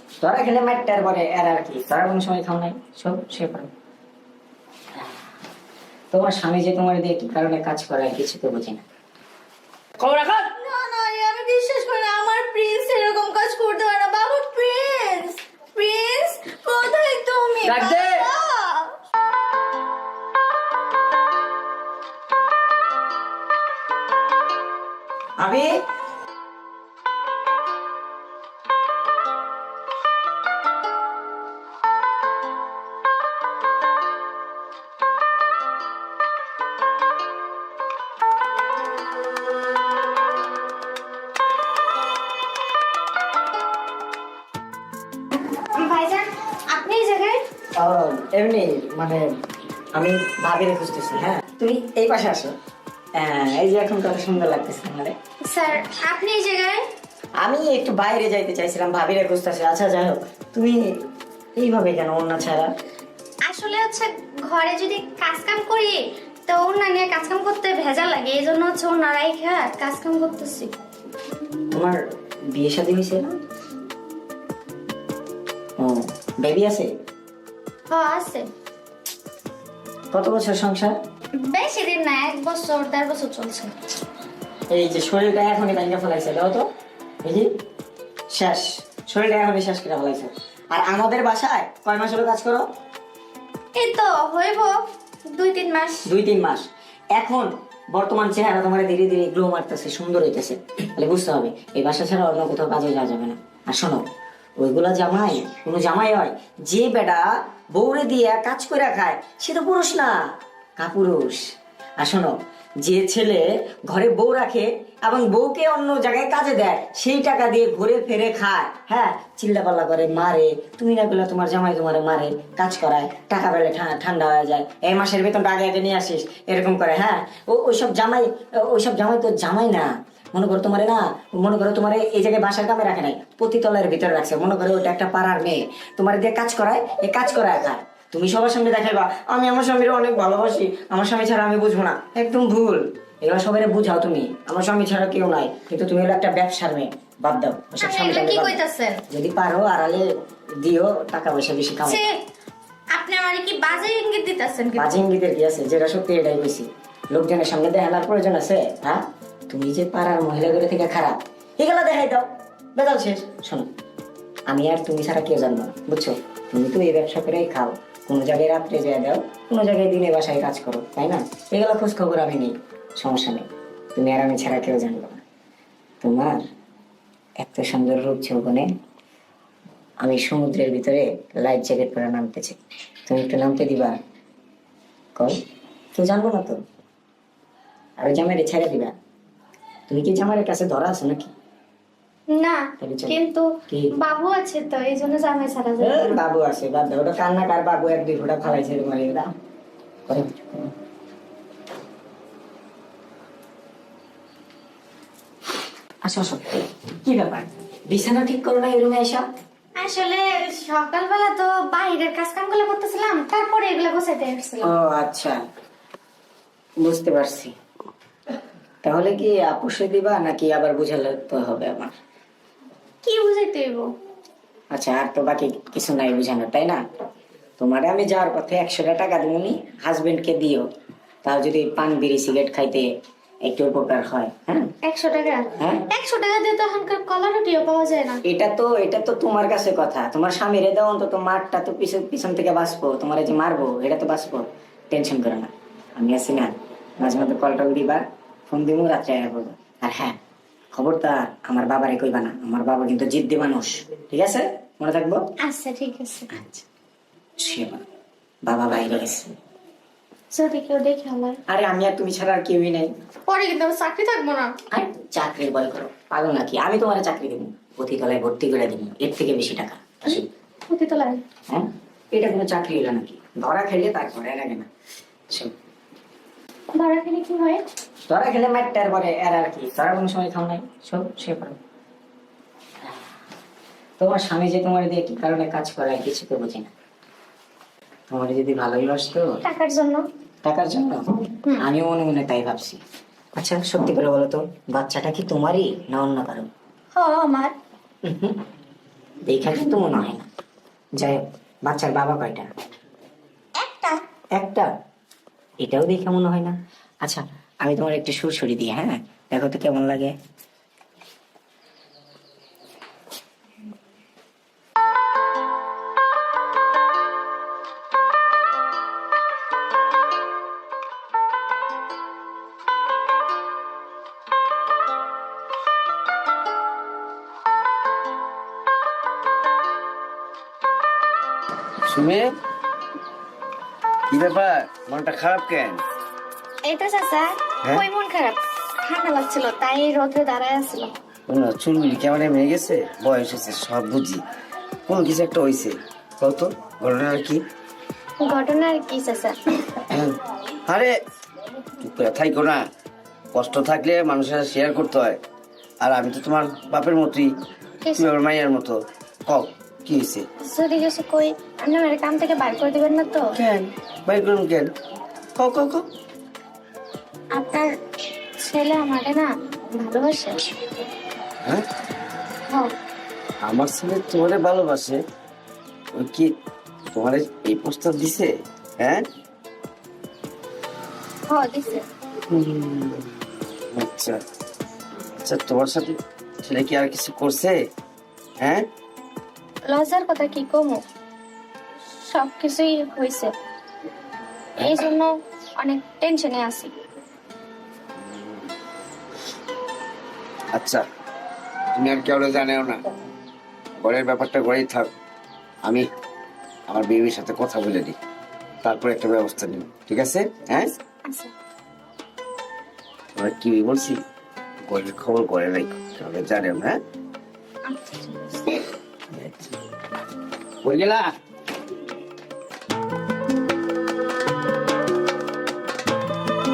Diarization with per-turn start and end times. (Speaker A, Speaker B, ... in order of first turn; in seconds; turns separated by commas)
Speaker A: 0.2-3.7, Speaker A: 6.1-8.8, Speaker B: 10.0-10.5, Speaker C: 10.6-18.9, Speaker B: 17.6-18.3, Speaker A: 25.4-25.8, Speaker C: 45.5-47.4, Speaker A: 47.8-49.3, Speaker A: 49.9-52.5, Speaker A: 53.1-55.1, Speaker C: 55.4-56.8, Speaker A: 57.4-61.0, Speaker A: 61.6-62.7, Speaker C: 63.4-70.7, Speaker A: 71.7-72.0, Speaker A: 72.5-73.4, Speaker A: 75.8-76.9, Speaker C: 77.9-78.5, Speaker A: 80.1-81.0, Speaker C: 81.4-83.7, Speaker A: 84.7-86.7, Speaker A: 87.2-87.5, Speaker A: 88.3-92.6, Speaker C: 93.8-94.7, Speaker C: 95.3-96.1, Speaker A: 96.0-104.0, Speaker A: 104.6-111.5, Speaker A: 112.0-148.6, Speaker C: 147.8-149.0, Speaker A: 149.1-150.1, Speaker A: 150.6-152.0, Speaker C: 151.9-152.2, Speaker C: 152.9-154.9, Speaker A: 154.8-163.7, Speaker A: 164.5-175.2, Speaker A: 176.0-176.4, Speaker A: 177.4-178.7, Speaker A: 180.0-183.9, Speaker A: 185.9-186.6, Speaker A: 188.0-188.9, Speaker A: 189.9-191.3, Speaker C: 192.3-196.2, Speaker A: 192.8-193.9, Speaker A: 195.8-199.3, Speaker A: 200.1-200.7, Speaker A: 206.0-209.2, Speaker C: 209.8-214.7, Speaker A: 214.6-215.4, Speaker A: 216.8-217.5, Speaker A: 218.8-221.9, Speaker C: 223.0-223.9, Speaker A: 224.7-226.8, Speaker A: 227.6-230.7, Speaker A: 231.2-232.9, Speaker A: 233.4-234.7, Speaker C: 234.8-238.2, Speaker A: 235.6-235.8, Speaker A: 238.2-250.2, Speaker A: 250.7-255.3, Speaker C: 255.4-256.3, Speaker A: 256.3-256.6, Speaker A: 257.4-257.8, Speaker A: 258.4-259.3, Speaker C: 260.3-261.4, Speaker A: 261.5-262.9, Speaker C: 263.3-264.5, Speaker A: 264.7-270.3, Speaker C: 270.1-271.2, Speaker A: 271.5-274.7, Speaker C: 276.7-277.6, Speaker A: 278.1-281.6, Speaker A: 284.0-286.7, Speaker A: 288.1-289.4, Speaker C: 289.4-290.1, Speaker A: 290.4-292.8, Speaker A: 293.4-296.5, Speaker C: 296.9-297.5, Speaker A: 298.0-298.4, Speaker A: 299.2-300.2, Speaker A: 301.0-302.5, Speaker C: 303.6-304.0, Speaker A: 304.3-304.7, Speaker A: 305.6-310.1, Speaker B: 331.8-332.3, Speaker B: 334.1-335.8, Speaker C: 336.6-340.9, Speaker B: 341.3-344.2, Speaker B: 344.9-347.4, Speaker C: 348.2-349.3, Speaker B: 349.9-350.9, Speaker B: 351.8-352.6, Speaker B: 353.3-355.2, Speaker B: 355.8-357.4, Speaker B: 357.9-360.2, Speaker C: 360.4-363.3, Speaker B: 363.3-364.7, Speaker B: 365.4-365.9, Speaker C: 367.3-367.7, Speaker C: 368.4-370.4, Speaker B: 373.4-375.0, Speaker B: 375.9-376.3, Speaker B: 376.9-379.0, Speaker C: 381.3-381.8, Speaker B: 382.3-383.1, Speaker B: 383.7-384.2, Speaker B: 385.2-387.6, Speaker B: 388.4-388.6, Speaker C: 389.7-390.8, Speaker C: 392.0-393.3, Speaker C: 394.6-396.7, Speaker B: 398.1-398.4, Speaker B: 400.5-400.9, Speaker B: 401.7-402.8, Speaker B: 403.8-404.9, Speaker B: 406.7-407.9, Speaker B: 408.6-410.7, Speaker C: 411.0-411.3, Speaker B: 413.2-414.0, Speaker B: 414.7-416.8, Speaker C: 417.7-418.6, Speaker B: 420.6-421.1